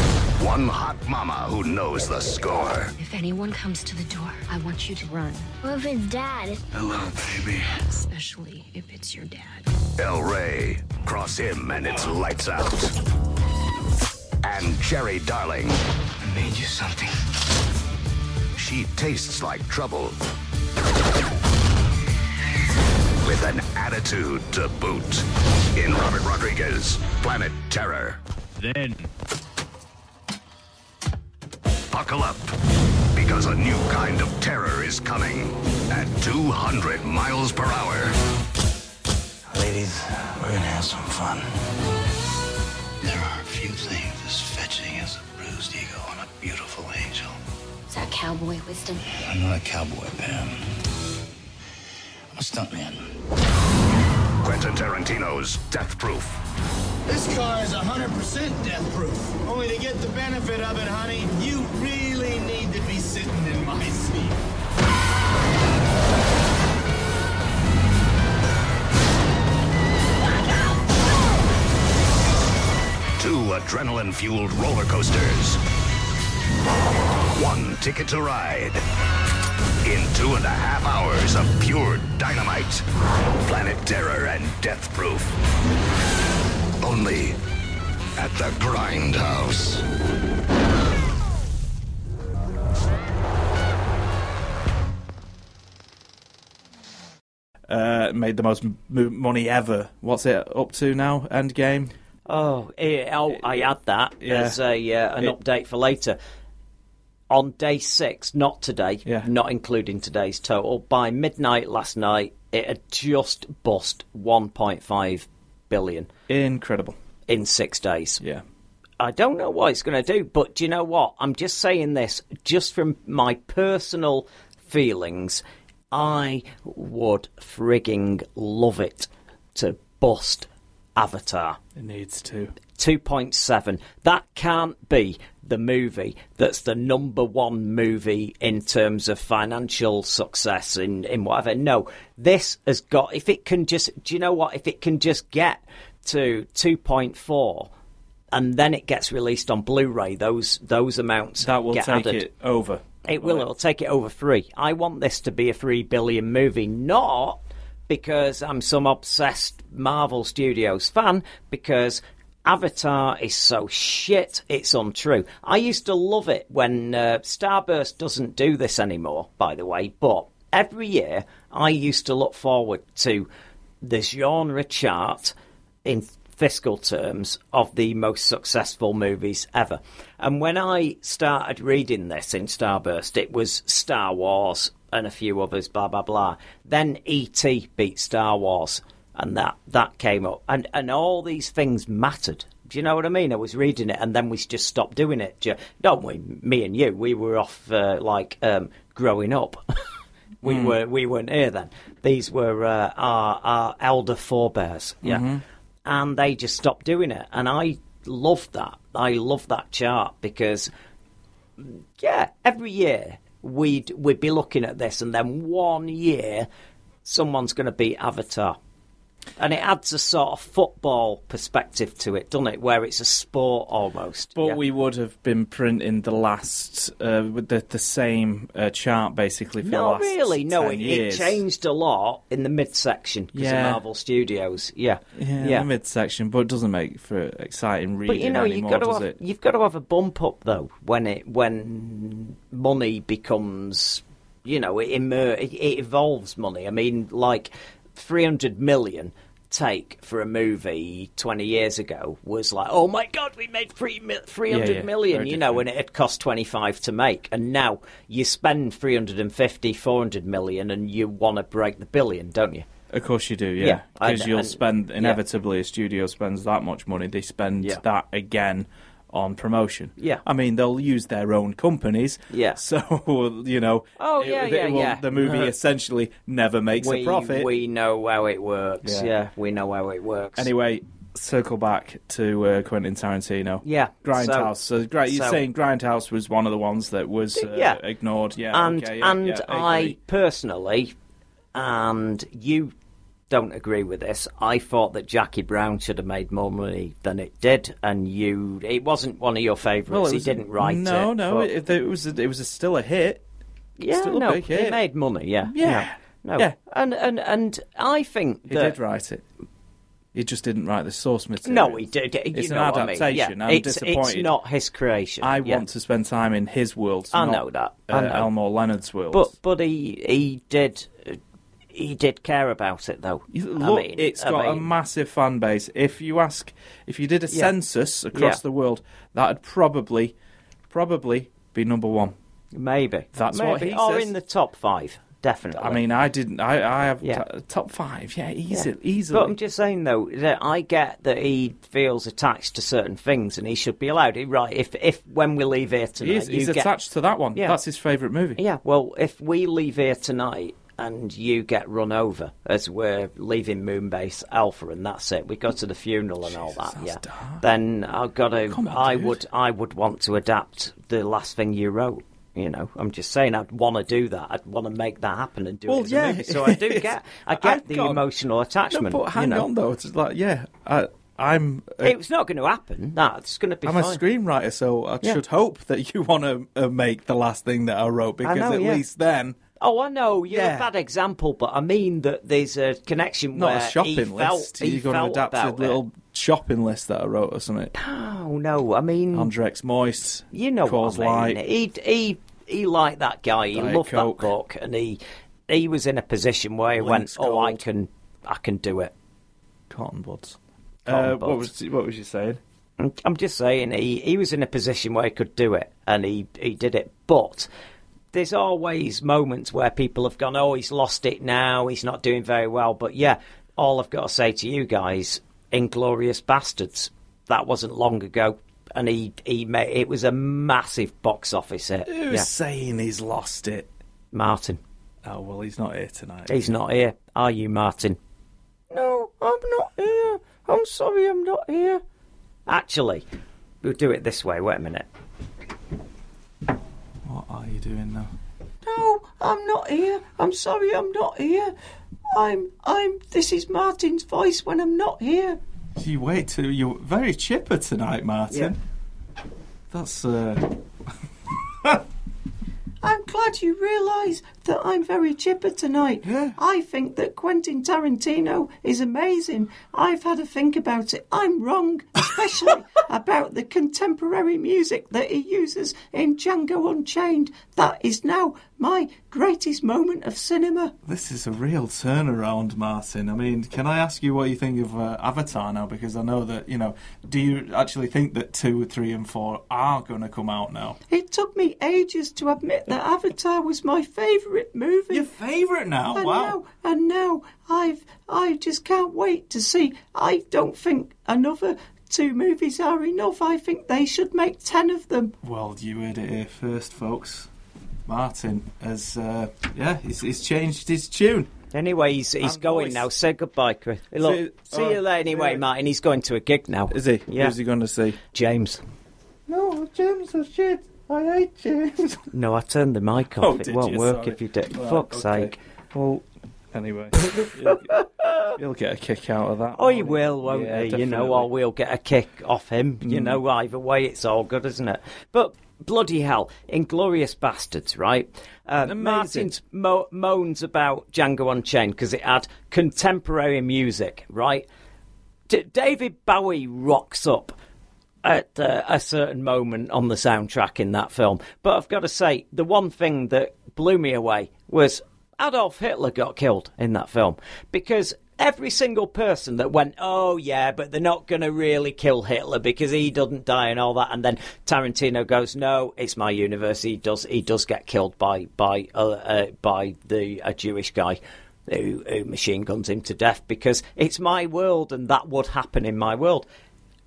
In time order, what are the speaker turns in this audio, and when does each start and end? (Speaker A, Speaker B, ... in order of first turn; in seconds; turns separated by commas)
Speaker A: 0.4-2.9, Speaker B: 3.0-6.6, Speaker C: 6.8-7.6, Speaker B: 7.9-9.7, Speaker A: 10.0-12.9, Speaker A: 14.4-15.8, Speaker C: 16.2-17.1, Speaker A: 18.6-20.2, Speaker A: 23.2-28.2, Speaker A: 31.9-32.6, Speaker A: 33.1-38.2, Speaker C: 39.5-41.4, Speaker C: 43.0-47.3, Speaker B: 47.9-49.0, Speaker C: 49.1-50.6, Speaker C: 52.3-53.0, Speaker A: 54.4-56.4, Speaker D: 57.1-64.4, Speaker A: 73.2-75.6, Speaker A: 77.3-78.8, Speaker A: 79.8-82.8, Speaker A: 83.5-85.4, Speaker A: 86.8-87.4, Speaker A: 88.2-89.8, Speaker E: 97.7-101.9, Speaker F: 102.3-106.2, Speaker E: 103.3-103.7, Speaker E: 104.2-104.6, Speaker F: 107.3-116.1, Speaker E: 116.3-117.0, Speaker F: 117.3-118.2, Speaker F: 119.0-131.6, Speaker E: 131.8-132.6, Speaker F: 132.8-147.7, Speaker F: 148.3-152.3, Speaker E: 151.4-153.5, Speaker F: 153.1-173.3, Speaker F: 173.8-175.3, Speaker F: 175.8-199.6, Speaker E: 200.4-200.8, Speaker F: 200.4-205.3, Speaker E: 205.0-205.4, Speaker F: 205.8-210.7, Speaker F: 211.6-216.5, Speaker F: 217.1-218.6, Speaker F: 219.4-224.6, Speaker E: 224.3-231.4, Speaker F: 229.6-235.7, Speaker E: 233.3-233.8, Speaker E: 235.2-239.2, Speaker F: 238.1-262.7, Speaker E: 254.5-255.7, Speaker E: 262.9-277.5, Speaker F: 263.6-265.2, Speaker F: 270.0-270.2, Speaker F: 272.3-272.6, Speaker F: 274.0-275.5, Speaker F: 276.8-280.5, Speaker E: 278.8-279.1, Speaker E: 280.4-290.0, Speaker F: 283.6-284.5, Speaker F: 285.1-285.4, Speaker F: 287.4-287.8, Speaker F: 288.5-290.9, Speaker F: 291.5-292.7, Speaker F: 293.3-301.5, Speaker E: 299.9-303.2, Speaker F: 303.8-308.8, Speaker E: 303.9-304.8, Speaker E: 305.5-306.6, Speaker E: 308.5-309.2, Speaker E: 310.1-314.3, Speaker F: 311.4-315.6, Speaker E: 315.2-319.3, Speaker F: 317.1-318.3, Speaker F: 319.1-321.2, Speaker F: 321.7-324.7, Speaker E: 323.3-330.1, Speaker F: 328.1-328.4, Speaker E: 330.7-332.1, Speaker F: 332.5-335.8, Speaker E: 333.1-334.1, Speaker E: 335.5-339.4, Speaker F: 338.5-346.7, Speaker E: 346.0-348.4, Speaker F: 348.4-369.5, Speaker E: 356.3-357.4, Speaker E: 358.4-359.2, Speaker E: 365.7-368.0, Speaker E: 368.7-372.0, Speaker F: 371.8-374.0, Speaker E: 373.6-379.4, Speaker F: 378.2-378.8, Speaker F: 379.6-385.8, Speaker E: 380.3-380.7, Speaker E: 383.3-387.7, Speaker F: 387.7-389.3, Speaker E: 389.1-391.4, Speaker F: 390.3-398.9, Speaker E: 393.5-394.3, Speaker E: 396.8-397.6, Speaker E: 399.7-402.4, Speaker F: 400.9-401.5, Speaker F: 402.8-407.5, Speaker F: 408.1-422.3, Speaker E: 421.9-423.7, Speaker F: 424.1-424.6, Speaker E: 425.0-426.6, Speaker F: 426.3-428.0, Speaker F: 428.7-431.8, Speaker F: 432.5-433.1, Speaker F: 433.6-434.9, Speaker E: 437.0-438.1, Speaker F: 438.6-441.5, Speaker F: 442.1-445.4, Speaker E: 445.8-448.6, Speaker E: 449.7-450.6, Speaker F: 452.8-470.7, Speaker E: 456.1-456.4, Speaker E: 470.8-480.8, Speaker F: 480.9-485.1, Speaker E: 484.9-486.4, Speaker F: 485.9-495.1, Speaker E: 495.2-497.3, Speaker E: 497.9-501.3, Speaker F: 501.5-507.4, Speaker E: 502.2-502.9, Speaker E: 503.9-505.4, Speaker E: 506.7-508.0, Speaker F: 508.1-508.6, Speaker E: 509.3-512.1, Speaker F: 512.1-515.4, Speaker E: 513.2-517.8, Speaker F: 517.0-518.4, Speaker E: 518.4-521.3, Speaker F: 519.5-534.5, Speaker E: 522.8-523.2, Speaker E: 528.6-529.3, Speaker F: 535.3-537.4, Speaker F: 538.0-566.3